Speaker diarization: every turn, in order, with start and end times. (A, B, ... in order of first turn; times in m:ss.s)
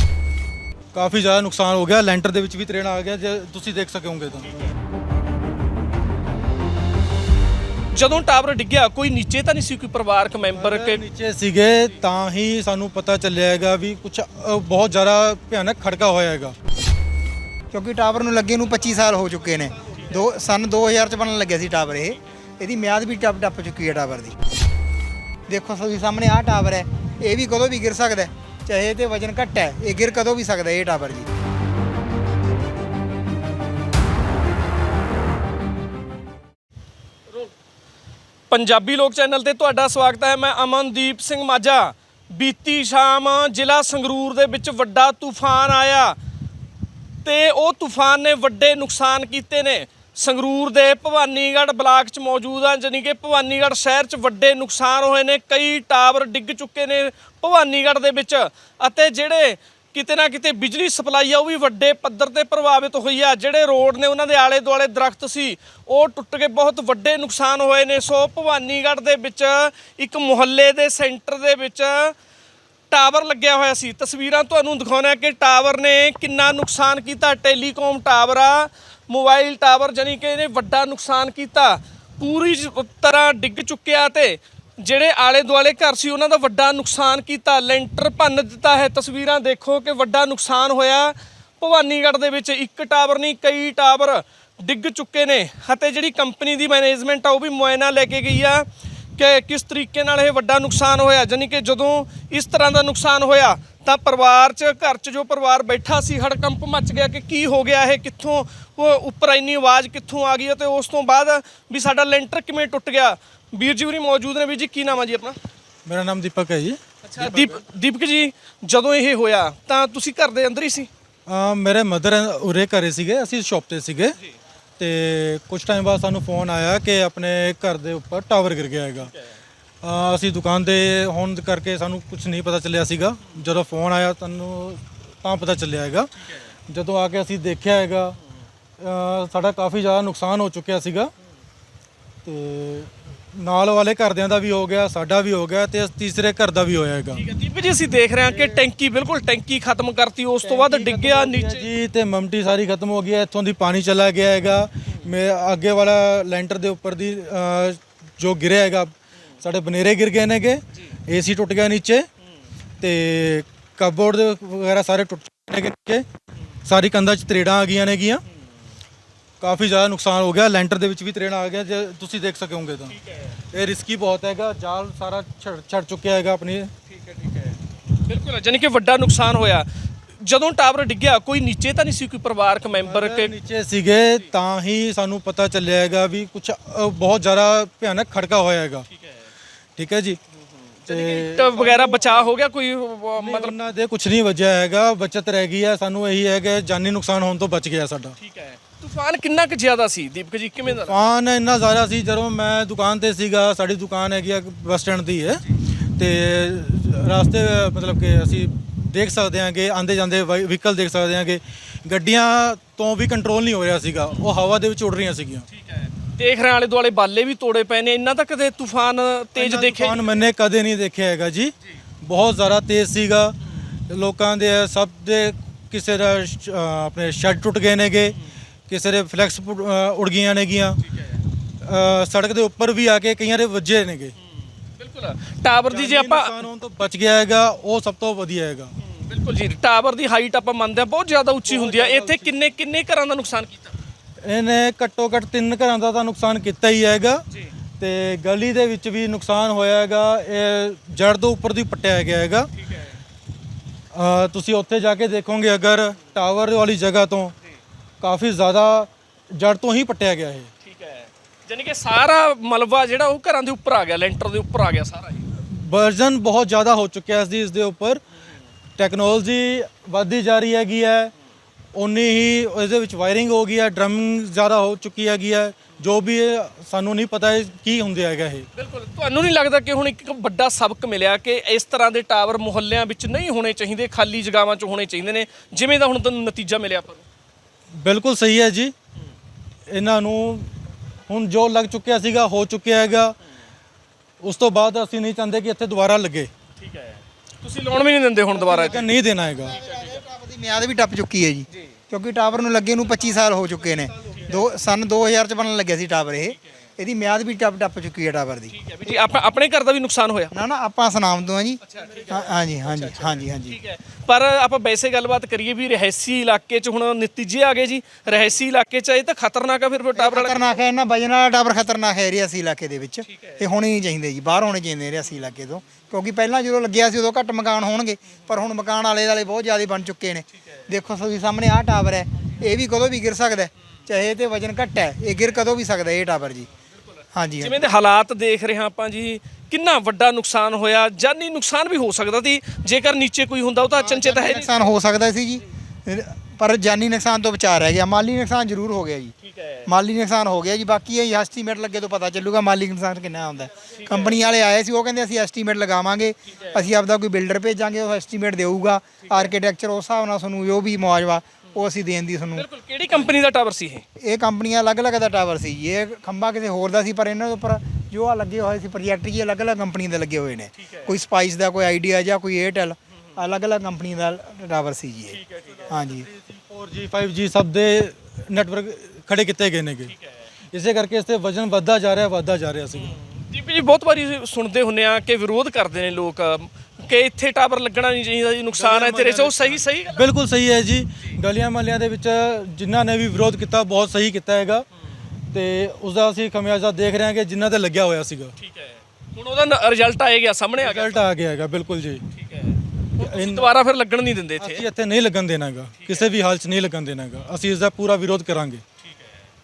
0:00.9-0:04.6 A
0:07.9-0:11.0 B
0:10.5-0:16.5 A
0:17.7-0:24.4 C
0:25.5-0:31.3 C
0:38.5-0:46.2 B
0:47.2-1:12.2 B
1:12.9-1:55.4 B
1:55.8-1:57.6 A
1:57.1-2:00.9 B
2:01.3-2:04.2 A
2:04.8-2:09.1 A
2:09.8-2:16.1 A
2:16.7-2:18.2 A
2:18.8-2:21.1 A
2:22.2-2:27.2 A
2:27.2-2:31.7 B
2:28.2-2:28.6 A
2:30.4-2:42.1 A
2:42.8-2:46.0 A
2:46.6-2:48.2 A
2:49.4-2:53.0 A
2:53.5-2:56.7 A
2:57.0-2:59.7 B
3:00.2-3:03.3 B
3:02.7-3:08.9 A
3:09.8-3:10.2 A
3:10.8-3:13.6 B
3:10.9-3:12.3 A
3:13.2-3:18.2 A
3:18.2-3:21.0 B
3:20.6-3:25.4 A
3:26.0-3:35.4 A
3:35.6-3:40.2 B
3:39.4-3:43.4 A
3:43.9-3:48.2 A
3:48.7-3:50.8 A
3:51.6-3:54.1 A
3:54.8-3:56.4 B
3:55.7-3:58.7 A
3:58.9-4:03.7 B
4:01.4-4:02.4 A
4:04.2-4:07.2 A
4:07.8-4:12.5 A
4:12.6-4:12.9 B
4:13.9-4:17.3 A
4:18.0-4:20.5 A
4:20.6-4:25.2 B
4:25.3-4:28.0 A
4:28.8-4:31.1 A
4:31.7-4:38.4 A
4:38.5-4:47.0 B
4:47.7-4:48.7 A
4:49.7-4:50.5 A
4:51.1-4:53.1 A
4:54.2-4:56.3 A
4:56.6-4:58.8 B
4:58.4-5:08.9 C
4:58.5-4:59.6 A
4:59.5-5:00.0 B
5:04.0-5:04.4 B
5:08.5-5:10.3 B
5:10.3-5:13.6 C
5:11.6-5:20.5 B
5:20.0-5:36.5 C
5:23.1-5:23.4 B
5:37.1-5:37.6 C
5:37.4-5:44.5 B
5:43.8-5:49.1 C
5:49.3-5:49.7 B
5:49.6-6:03.1 C
5:53.7-5:54.2 B
5:56.3-5:56.6 B
5:59.0-5:59.3 B
6:02.4-6:03.8 B
6:04.0-6:15.2 C
6:10.7-6:10.9 B
6:15.1-6:15.9 B
6:15.7-6:19.9 A
6:15.7-6:16.1 C
6:20.5-6:23.0 A
6:22.7-6:30.0 B
6:28.5-6:34.6 A
6:35.3-6:38.4 A
6:38.4-6:41.0 B
6:40.6-6:42.0 A
6:42.1-6:44.6 B
6:43.0-6:43.5 A
6:44.4-6:48.6 A
6:45.8-6:46.1 B